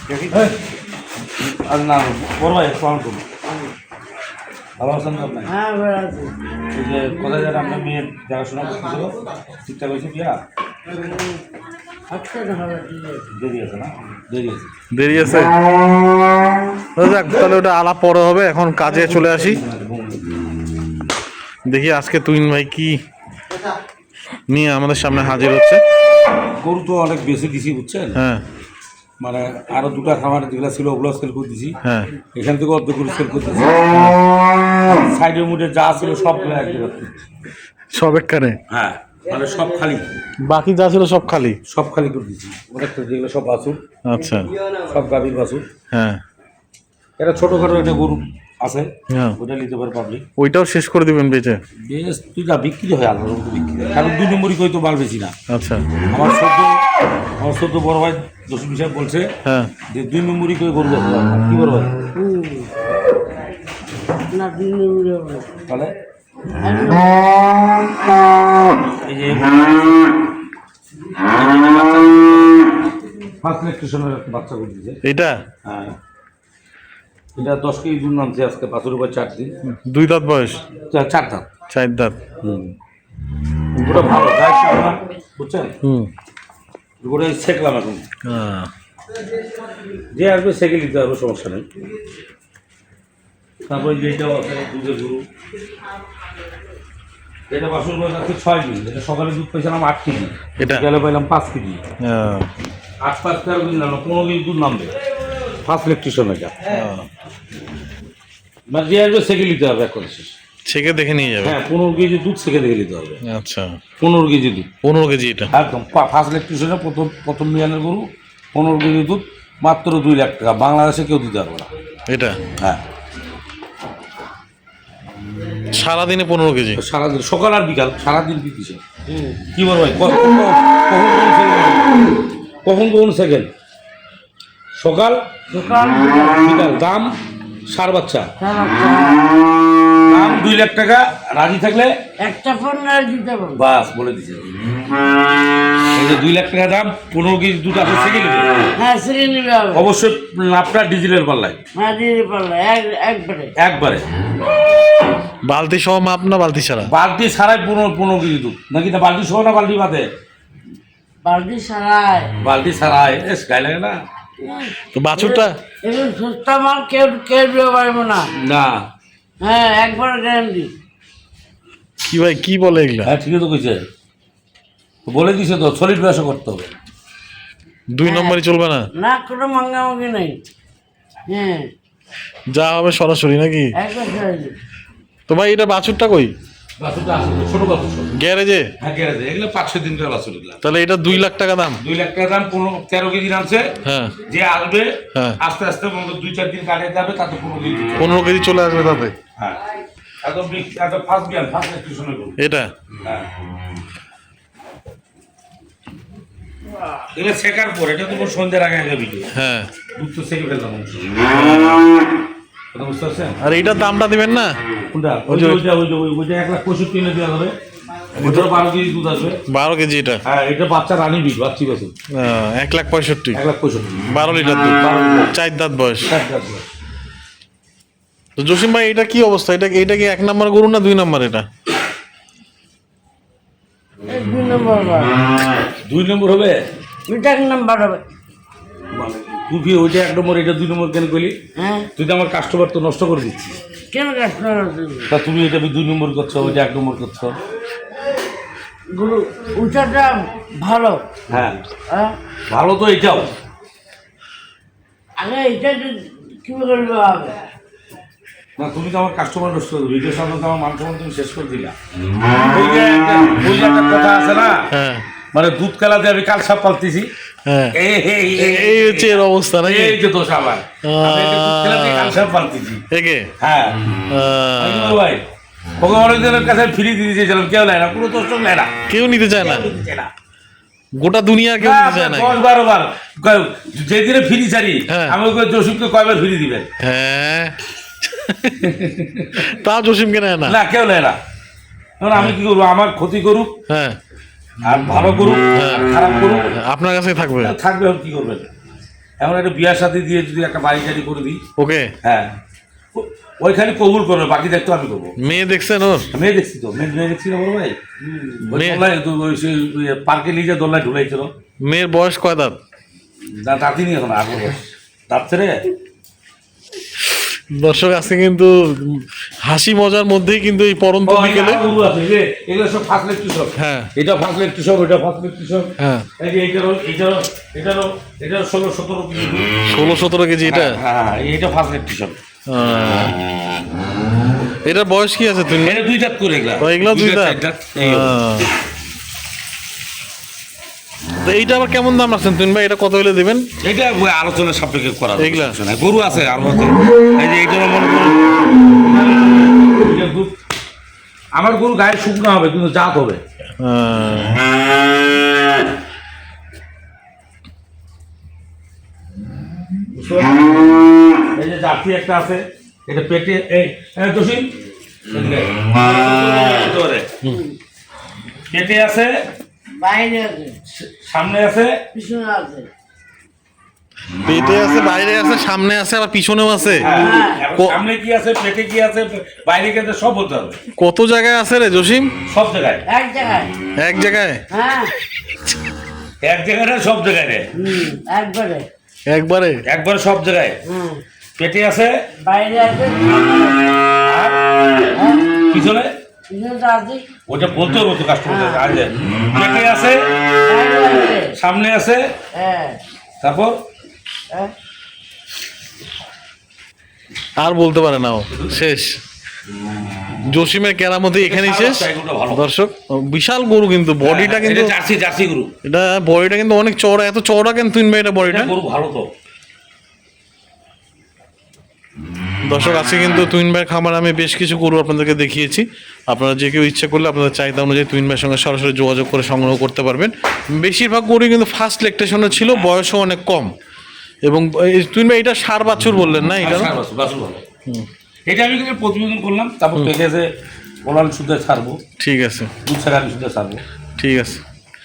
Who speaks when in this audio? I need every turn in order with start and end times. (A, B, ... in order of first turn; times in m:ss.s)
0:00.2-0:00.5 A
0:01.3-0:03.2 A
0:04.8-0:05.5 A
0:05.4-0:06.3 B
0:06.7-0:10.4 A
0:12.1-0:13.3 B
0:13.3-0:14.7 A
0:14.9-0:15.6 C
0:17.0-0:19.6 C
0:18.8-0:20.3 A
0:21.6-0:23.0 C
0:24.5-0:25.8 C
0:26.6-0:28.2 A
0:28.1-0:28.4 C
0:29.2-0:31.8 A
0:31.8-0:32.1 C
0:32.3-0:34.2 A
0:34.8-0:37.2 A
0:37.9-0:38.6 C
0:38.7-0:40.1 A
0:40.4-0:41.6 C
0:41.6-0:43.8 A
0:44.0-0:44.5 C
0:44.8-0:45.6 A
0:45.9-0:46.2 C
0:47.2-0:50.2 A
0:49.1-0:49.4 C
0:50.4-0:51.6 C
0:51.8-0:55.3 A
0:55.5-0:55.9 C
0:56.0-0:56.8 A
0:57.4-0:59.3 A
0:59.4-0:59.7 C
0:59.9-1:01.9 A
1:02.1-1:02.7 B
1:04.3-1:05.5 B
1:05.7-1:05.9 A
1:06.6-1:07.4 B
1:09.0-1:10.3 A
1:11.2-1:12.6 A
1:13.4-1:15.0 A
1:15.0-1:15.4 C
1:15.6-1:16.0 A
1:17.4-1:19.5 A
1:19.6-1:20.6 C
1:20.9-1:21.5 A
1:21.7-1:22.2 C
1:22.4-1:22.7 A
1:23.8-1:25.7 A
1:25.8-1:26.1 C
1:27.0-1:28.0 A
1:28.2-1:28.7 C
1:30.1-1:31.7 A
1:33.6-1:35.3 A
1:37.5-1:41.8 A
1:40.6-1:40.8 C
1:42.0-1:42.5 C
1:43.0-1:44.9 A
1:45.6-1:46.6 A
1:46.6-1:47.1 C
1:48.7-1:50.3 A
1:50.6-1:51.6 C
1:51.4-1:53.2 A
1:53.2-1:53.8 C
1:54.0-1:54.7 A
1:54.8-1:55.5 C
1:55.5-2:01.7 A
2:02.1-2:02.4 C
2:05.7-2:06.8 C
2:06.8-2:08.8 A
2:09.1-2:09.4 B
2:09.5-2:12.1 A
2:12.6-2:13.5 A
2:14.8-2:15.2 A
2:15.5-2:16.4 B
2:16.3-2:17.1 A
2:17.7-2:18.3 A
2:18.4-2:19.3 B
2:20.1-2:21.9 A
2:22.2-2:23.6 B
2:23.6-2:24.5 A
2:25.9-2:28.5 A
2:28.8-2:29.9 B
2:29.7-2:31.6 A
2:31.7-2:33.5 B
2:33.6-2:34.0 A
2:35.4-2:36.9 C
2:36.8-2:40.1 A
2:41.2-2:42.3 B
2:42.4-2:44.0 A
2:44.4-2:48.3 B
2:44.9-2:45.5 C
2:48.4-2:48.8 A
2:49.4-2:50.7 B
2:52.0-2:53.1 C
2:53.0-2:53.8 A
2:55.0-2:56.7 A
2:57.9-2:58.9 C
2:58.0-2:58.4 B
2:58.9-3:00.4 B
3:01.3-3:01.7 B
3:02.5-3:03.7 C
3:03.7-3:04.5 B
3:05.3-3:06.3 C
3:06.8-3:08.1 A
3:08.1-3:08.7 C
3:08.8-3:10.6 A
3:10.6-3:11.8 C
3:11.8-3:13.7 A
3:13.8-3:14.2 C
3:14.2-3:18.0 A
3:18.0-3:19.2 C
3:20.2-3:22.4 A
3:22.4-3:22.7 C
3:27.1-3:29.3 A
3:29.3-3:29.7 C
3:30.0-3:31.8 A
3:32.7-3:33.4 A
3:33.4-3:34.5 C
3:34.9-3:37.5 A
3:35.3-3:35.6 C
3:38.2-3:39.4 A
3:38.2-3:38.5 C
3:39.5-3:40.2 C
3:40.2-3:41.9 A
3:42.1-3:43.4 C
3:43.3-3:44.0 A
3:44.1-3:46.1 C
3:44.8-3:45.3 A
3:46.0-3:46.6 A
3:48.4-3:51.5 C
3:54.1-3:55.2 B
3:55.8-3:56.6 A
3:57.1-3:58.0 B
3:58.9-4:01.4 A
4:01.6-4:01.9 B
4:02.0-4:03.6 A
4:03.9-4:05.1 B
4:05.1-4:07.4 A
4:08.9-4:11.0 B
4:11.3-4:11.6 A
4:11.9-4:12.1 B
4:12.5-4:13.3 A
4:15.2-4:17.4 B
4:18.6-4:21.7 A
4:22.4-4:24.7 A
4:24.7-4:25.0 C
4:25.3-4:27.1 A
4:27.4-4:27.8 C
4:27.7-4:32.8 A
4:28.4-4:30.0 C
4:30.8-4:32.2 C
4:32.9-4:33.3 C
4:33.4-4:33.8 A
4:34.1-4:35.0 C
4:34.6-4:35.2 A
4:35.8-4:38.7 A
4:38.9-4:39.7 C
4:39.4-4:40.1 A
4:41.0-4:42.4 C
4:41.6-4:46.7 A
4:44.9-4:45.2 C
4:46.8-4:48.7 C
4:48.6-4:49.5 A
4:49.4-4:50.6 C
4:50.4-4:51.2 A
4:52.0-4:53.6 A
4:53.7-4:54.0 C
4:54.6-4:56.6 A
4:55.5-4:55.9 C
4:56.5-4:57.5 C
4:57.4-4:58.5 A
4:59.2-5:01.4 A
5:01.6-5:01.9 C
5:02.0-5:02.3 A
5:02.9-5:05.2 A
5:05.2-5:06.1 C
5:06.1-5:07.8 A
5:08.0-5:08.4 B
5:08.4-5:11.3 A
5:08.5-5:08.8 C
5:11.6-5:12.6 C
5:13.3-5:15.6 A
5:17.0-5:21.6 C
5:21.0-5:29.5 A
5:23.6-5:23.9 C
5:25.8-5:26.1 C
5:29.7-5:30.8 C
5:30.4-5:32.2 A
5:32.5-5:33.2 C
5:34.6-5:35.8 C
5:35.6-5:38.2 A
5:36.6-5:38.5 C
5:41.2-5:43.5 C
5:43.6-5:48.4 A
5:45.2-5:45.6 C
5:49.6-5:50.3 A
5:51.3-5:53.2 A
5:53.6-5:54.4 C
5:59.9-6:04.5 A
6:05.1-6:07.1 A
6:08.5-6:09.1 A
6:09.8-6:10.6 B
6:10.7-6:11.8 A
6:11.9-6:12.7 B
6:14.2-6:16.9 C
6:16.8-6:20.6 A
6:16.8-6:17.4 B
6:20.8-6:22.1 C
6:22.3-6:22.8 A
6:22.8-6:23.5 B
6:23.8-6:24.4 C
6:24.5-6:24.9 B
6:26.2-6:27.5 A
6:27.5-6:28.7 B
6:29.1-6:29.6 C
6:29.6-6:30.6 A
6:30.6-6:31.0 B
6:31.4-6:32.0 A
6:32.2-6:33.6 B
6:34.1-6:34.4 A
6:34.9-6:35.2 B
6:35.5-6:35.9 A
6:36.3-6:37.0 B
6:37.3-6:40.1 A
6:38.3-6:38.8 B
6:40.4-6:41.3 B
6:41.3-6:42.1 A
6:42.3-6:42.8 B
6:43.2-6:43.6 A
6:47.4-6:49.0 C
6:50.2-6:54.8 C
6:51.2-6:52.4 A
6:54.0-6:55.5 A
6:55.6-6:58.5 C
6:58.2-6:59.1 A
7:02.4-7:13.5 C
7:14.2-7:16.7 C
7:16.4-7:17.4 A
7:18.3-7:20.3 A
7:20.8-7:21.8 A
7:22.0-7:22.5 C
7:22.6-7:23.6 A
7:24.0-7:24.4 C